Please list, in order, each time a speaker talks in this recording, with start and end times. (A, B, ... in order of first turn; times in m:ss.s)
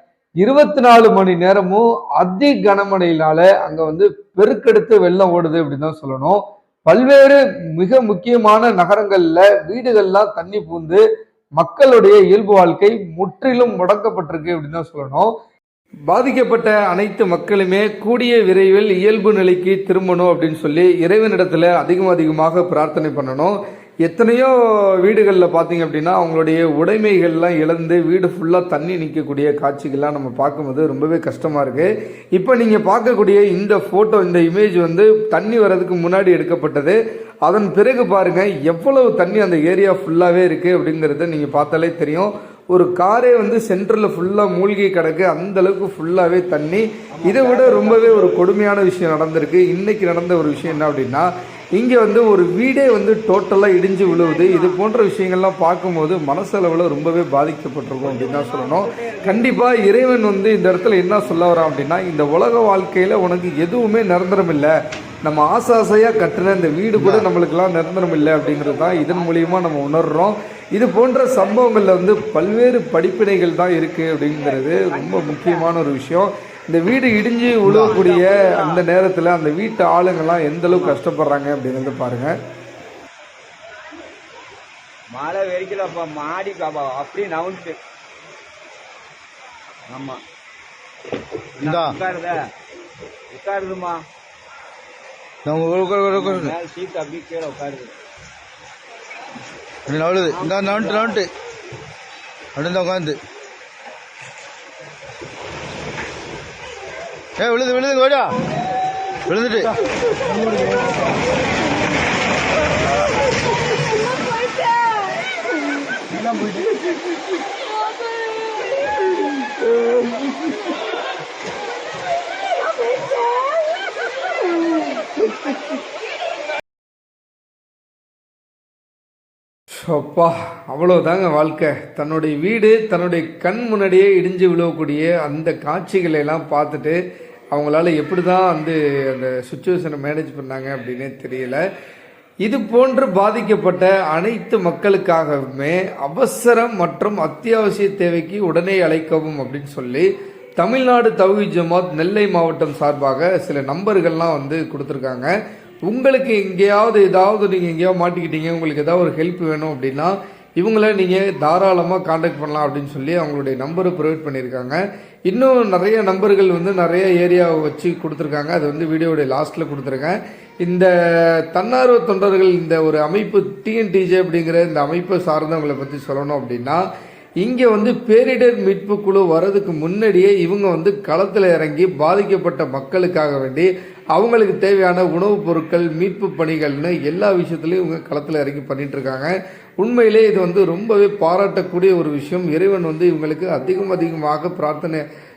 0:00.4-0:11.0 A
0:11.6-0:15.3 A
0:16.1-1:04.7 A
0:47.1-0:48.4 B
0:54.0-0:54.8 B
0:58.0-0:59.6 B
1:05.2-1:22.4 A
1:07.0-1:07.3 C
1:07.6-1:10.0 B
1:11.3-1:11.6 B
1:14.3-1:15.7 B
1:17.6-1:17.9 C
1:17.8-1:18.8 B
1:20.7-1:21.0 B
1:25.1-1:27.8 B
1:29.9-1:30.2 B
1:31.6-1:32.4 B
1:31.6-1:32.0 C
1:33.3-1:34.0 B
1:35.4-1:36.5 C
1:36.1-1:38.0 B
1:39.9-1:41.3 C
1:40.2-1:41.2 B
1:42.6-1:43.2 C
1:47.4-1:48.4 C
1:49.3-1:49.7 C
2:09.8-2:17.0 A
2:17.5-2:21.6 A
2:22.4-2:30.1 A
2:30.6-2:35.3 A
2:35.9-2:56.8 A
2:57.4-3:15.0 A